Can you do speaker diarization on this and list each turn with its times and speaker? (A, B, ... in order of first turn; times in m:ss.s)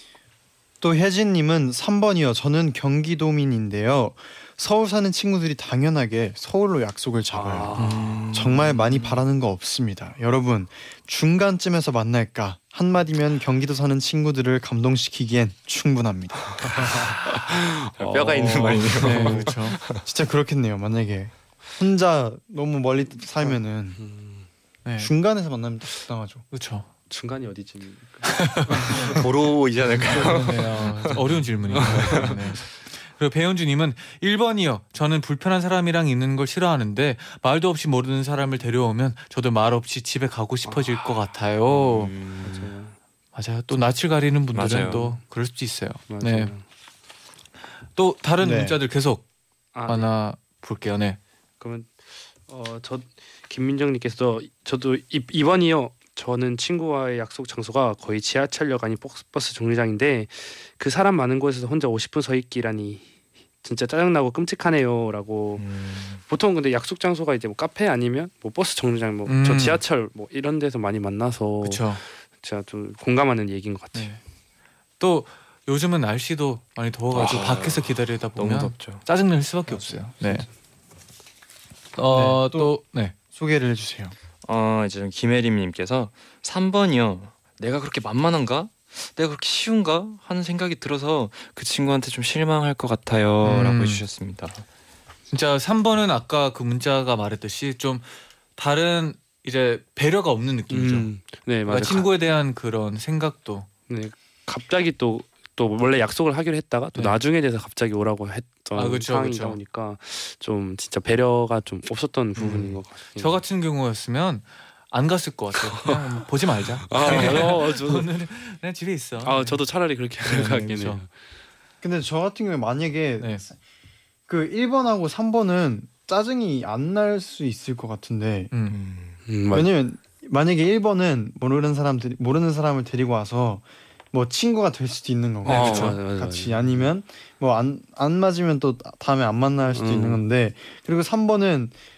0:00.8-0:07.7 A
0:07.3-0:08.3 B
0:07.8-0:09.2 C
0:08.3-0:16.8 A
0:16.8-0:19.4 B
0:16.8-0:17.4 C
0:18.0-0:20.0 C
0:19.0-0:19.7 D
0:19.0-0:24.0 A
0:23.4-0:24.5 B
0:24.8-0:25.1 D
0:25.0-0:26.4 A
0:26.5-0:26.9 D
0:27.1-0:29.2 B
0:28.2-0:29.1 D
0:28.8-0:32.4 C
0:30.2-0:42.1 D
0:31.8-0:32.4 B
0:41.7-0:42.7 C
0:42.4-0:43.0 B
0:43.4-0:46.5 D
0:44.5-0:45.1 C
0:46.1-0:46.6 B
0:48.0-0:49.2 D
0:48.4-0:48.8 A
0:49.7-0:50.1 B
0:49.9-0:51.2 D
0:51.6-1:03.1 B
1:03.6-1:05.6 B
1:05.6-1:06.2 C
1:06.2-1:14.2 B
1:09.3-1:09.8 D
1:11.6-1:12.0 D
1:15.0-1:20.5 D
1:17.1-1:19.0 C
1:22.0-1:23.2 D
1:22.1-1:22.8 A
1:23.3-1:24.2 A
1:24.4-1:34.6 C
1:33.4-1:34.0 D
1:35.3-1:41.1 D
1:40.7-1:42.1 B
1:41.7-1:43.7 D
1:43.9-1:53.4 B
1:48.8-1:49.6 D
1:52.4-1:52.8 C
1:53.2-1:59.6 D
1:55.6-1:56.0 B
1:56.9-1:58.1 B
1:59.2-2:01.1 B
2:00.3-2:01.0 D
2:01.8-2:03.6 A
2:04.3-2:08.5 A
2:08.5-2:08.8 D
2:08.7-2:09.2 C
2:09.3-2:09.7 B
2:09.5-2:21.7 A
2:15.4-2:16.9 B
2:15.5-2:16.0 D
2:19.7-2:20.2 B